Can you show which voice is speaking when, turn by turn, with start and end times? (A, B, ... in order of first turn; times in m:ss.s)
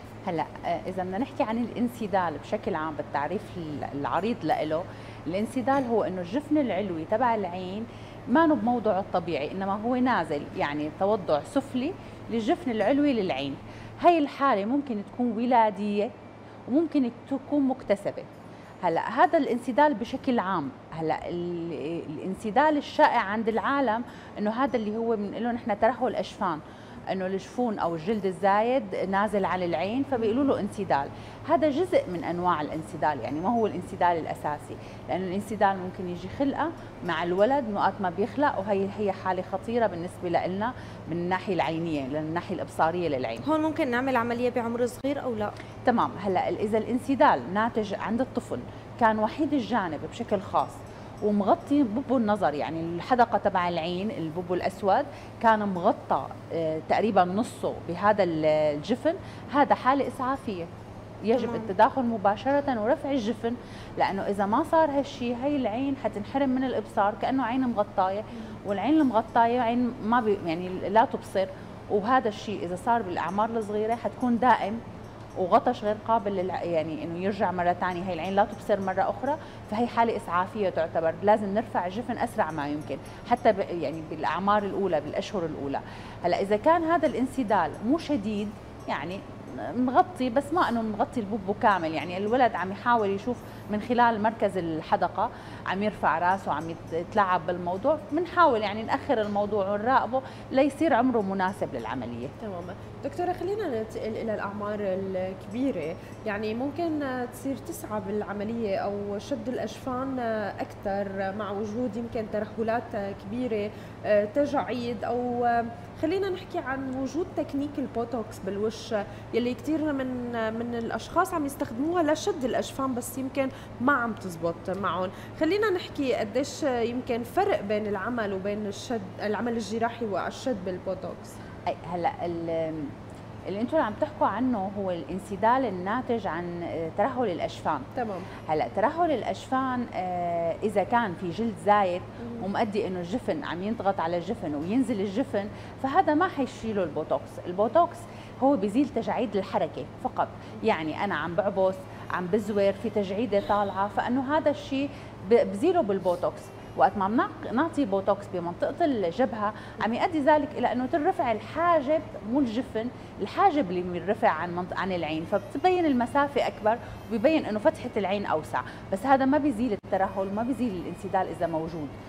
0:00.2-0:16.1 A
0:16.7-0:18.3 A
0:18.8-0:43.4 A
0:43.4-0:45.5 B
0:45.8-1:00.7 A
1:01.2-1:14.8 A
1:15.4-1:42.3 A
1:42.4-2:11.4 C
2:11.7-2:12.9 A
2:13.5-2:17.8 A
2:18.0-2:18.3 C
2:18.5-2:51.9 A